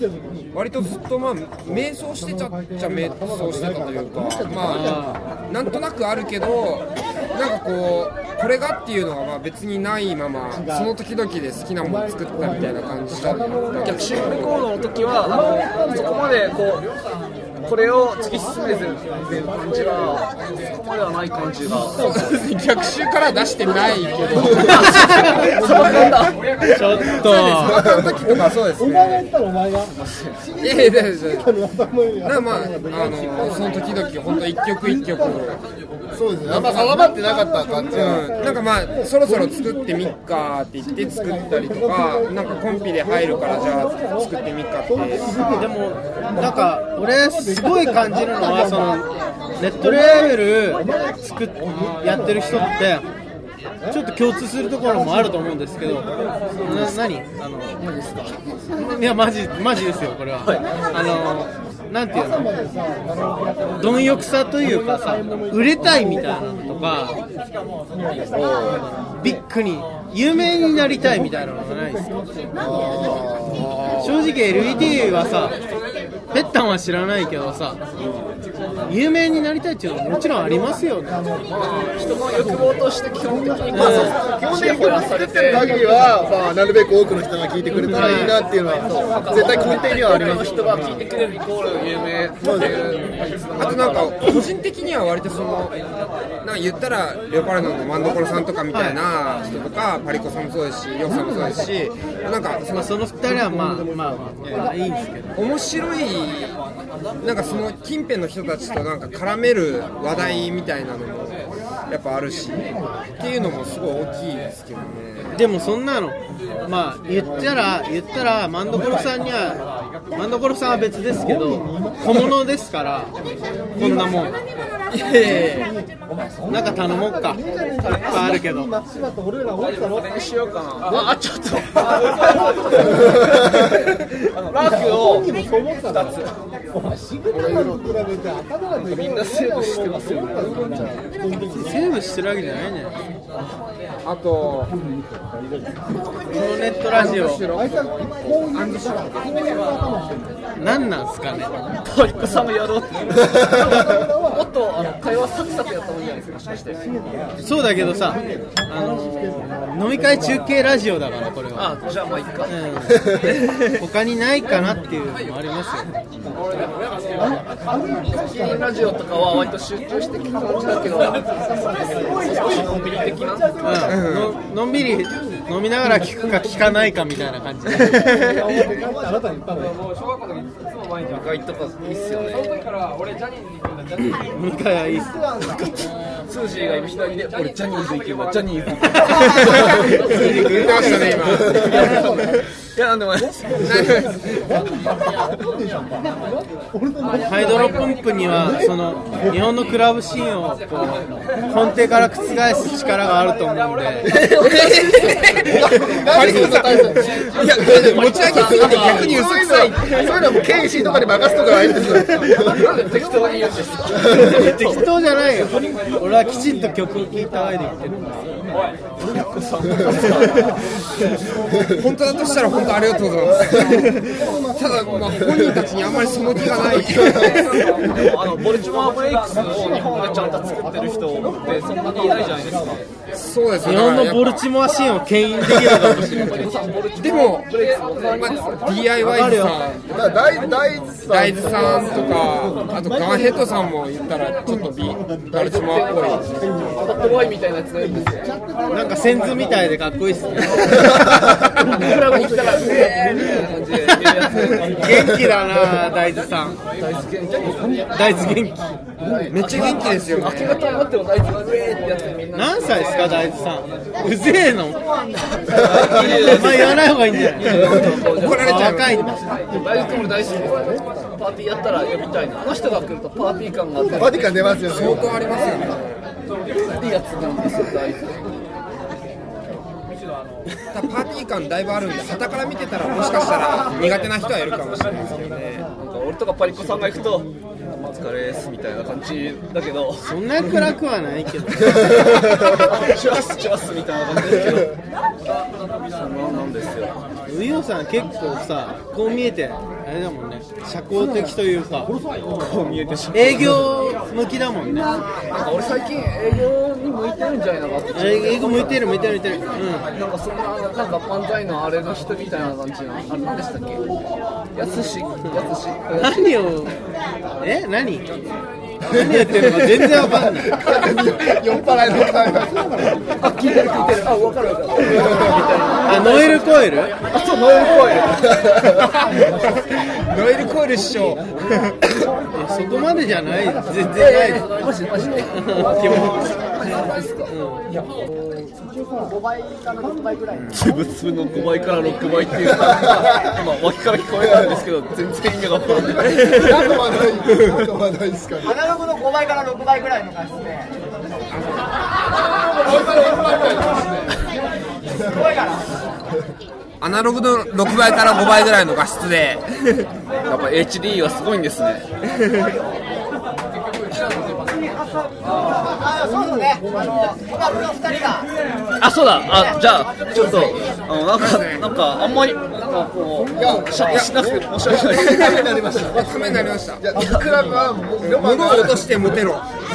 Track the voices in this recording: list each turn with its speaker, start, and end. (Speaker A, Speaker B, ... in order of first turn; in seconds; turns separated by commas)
Speaker A: 0.5-14.6, Speaker B: 4.6-5.2, Speaker C: 13.8-16.9, Speaker C: 17.6-22.0, Speaker A: 22.0-25.0, Speaker C: 24.6-26.6, Speaker B: 24.8-25.8, Speaker A: 25.6-26.2, Speaker B: 26.7-27.8, Speaker A: 27.2-29.3, Speaker D: 27.6-28.4, Speaker C: 30.0-30.4, Speaker A: 30.6-31.5, Speaker A: 32.2-35.6, Speaker D: 36.1-38.2, Speaker A: 36.5-36.9, Speaker A: 37.9-45.4, Speaker B: 45.5-53.0, Speaker B: 53.9-56.1, Speaker B: 56.6-57.8, Speaker C: 57.9-58.3, Speaker B: 58.7-62.5, Speaker B: 63.8-67.2, Speaker D: 68.3-68.8, Speaker B: 69.2-72.1, Speaker D: 72.6-73.7, Speaker B: 74.0-75.5, Speaker B: 76.3-77.8, Speaker B: 78.9-81.2, Speaker C: 81.5-85.7, Speaker B: 83.7-84.2, Speaker D: 83.8-90.7, Speaker B: 87.8-88.3, Speaker C: 88.8-94.3, Speaker A: 93.6-95.8, Speaker A: 96.4-102.9, Speaker B: 98.7-99.0, Speaker B: 102.7-105.4, Speaker A: 105.3-106.6, Speaker A: 107.2-115.4, Speaker B: 115.3-123.1, Speaker B: 123.8-124.4, Speaker A: 124.9-125.7, Speaker B: 126.5-128.7, Speaker C: 127.8-128.3, Speaker C: 129.6-136.3, Speaker A: 137.3-137.9, Speaker C: 138.8-141.0, Speaker B: 141.4-142.9, Speaker A: 144.0-144.7, Speaker B: 146.3-147.4, Speaker A: 146.9-149.8, Speaker B: 150.6-151.5, Speaker C: 151.8-156.8, Speaker B: 157.4-161.7, Speaker C: 161.5-162.5, Speaker B: 162.5-165.9, Speaker C: 168.1-173.5, Speaker B: 173.6-178.3, Speaker A: 173.9-174.3, Speaker C: 181.0-182.6, Speaker B: 184.3-185.3, Speaker C: 186.3-189.9, Speaker B: 189.1-191.6, Speaker A: 189.6-191.8, Speaker C: 191.6-193.8, Speaker A: 193.6-194.1, Speaker B: 197.2-204.1, Speaker C: 204.1-205.2, Speaker A: 204.4-210.1, Speaker D: 205.4-212.5, Speaker C: 207.6-209.2, Speaker C: 212.4-214.8, Speaker B: 214.1-218.4, Speaker C: 219.0-220.5, Speaker A: 221.7-227.9, Speaker D: 226.9-227.2, Speaker C: 227.2-232.9, Speaker A: 233.1-234.4, Speaker B: 233.6-236.5, Speaker C: 236.1-238.9, Speaker A: 237.0-237.5, Speaker A: 238.2-239.9, Speaker B: 239.0-239.6, Speaker D: 239.9-242.3, Speaker A: 241.1-246.2, Speaker C: 245.3-248.3, Speaker B: 248.7-251.0, Speaker C: 251.6-254.7, Speaker B: 254.8-256.6, Speaker C: 256.8-257.9, Speaker B: 257.9-258.7, Speaker C: 259.2-263.3, Speaker A: 259.3-260.6, Speaker B: 262.3-264.9, Speaker C: 265.5-268.5, Speaker B: 265.8-269.2, Speaker A: 268.1-269.1, Speaker C: 269.5-274.4, Speaker D: 273.9-275.2, Speaker A: 274.7-276.0, Speaker C: 276.5-278.3, Speaker A: 280.7-285.6, Speaker C: 283.7-284.1, Speaker C: 285.1-287.3, Speaker C: 287.9-290.1, Speaker B: 290.0-292.0, Speaker C: 292.2-294.7, Speaker C: 295.9-297.0, Speaker B: 297.3-301.9, Speaker C: 302.3-303.7, Speaker B: 303.1-305.0, Speaker C: 305.3-308.9, Speaker B: 307.9-309.9, Speaker C: 309.9-313.8, Speaker C: 314.5-316.4, Speaker B: 315.9-316.8, Speaker B: 317.4-318.1, Speaker B: 318.9-320.6, Speaker D: 320.0-322.9, Speaker C: 323.2-328.3, Speaker B: 325.8-326.9, Speaker A: 329.8-331.8, Speaker B: 332.3-334.4, Speaker C: 333.9-337.3, Speaker B: 335.3-336.3, Speaker B: 337.3-337.6, Speaker C: 340.5-346.3, Speaker D: 345.8-348.5, Speaker E: 348.5-350.7, Speaker A: 356.8-359.9, Speaker C: 360.3-361.8, Speaker E: 365.5-368.3, Speaker C: 368.8-375.4, Speaker D: 370.1-370.6, Speaker A: 371.1-371.7, Speaker D: 373.4-378.9, Speaker A: 375.9-376.8, Speaker A: 378.0-379.5